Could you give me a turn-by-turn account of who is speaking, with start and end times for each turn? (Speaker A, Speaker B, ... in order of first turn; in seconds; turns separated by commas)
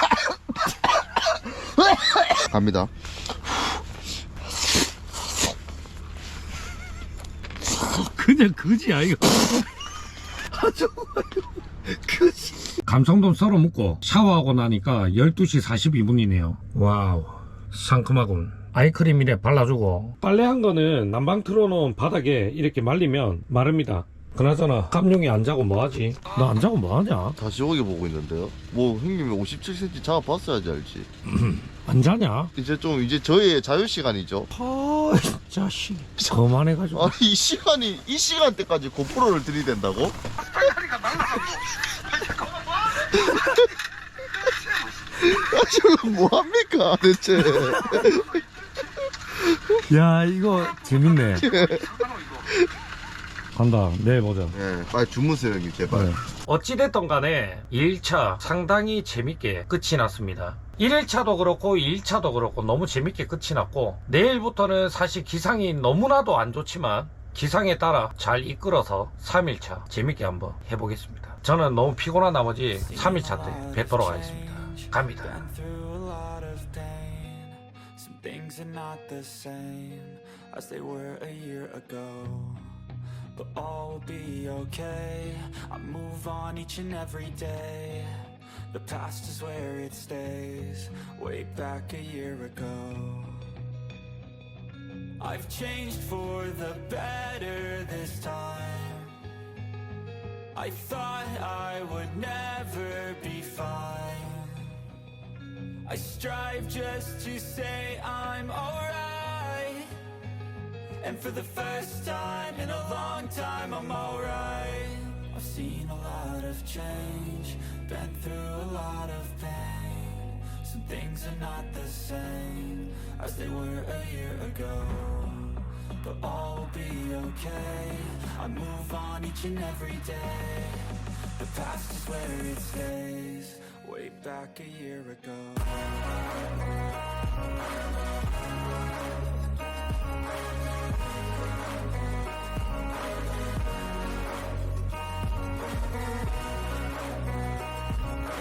Speaker A: 2.5-2.9, Speaker B: 7.7-9.7, Speaker B: 10.5-27.4, Speaker A: 27.4-31.1, Speaker B: 31.3-32.5, Speaker A: 32.5-34.5, Speaker B: 34.5-37.1, Speaker A: 36.9-40.2, Speaker B: 40.4-43.4, Speaker A: 43.0-43.6, Speaker A: 45.0-48.4, Speaker B: 49.7-51.5, Speaker A: 51.4-52.7, Speaker B: 53.5-54.5, Speaker A: 54.5-56.1, Speaker B: 55.9-75.4, Speaker C: 72.8-82.8, Speaker C: 83.3-93.5, Speaker C: 95.2-99.2, Speaker C: 100.5-104.8, Speaker C: 105.8-109.9, Speaker C: 111.0-136.1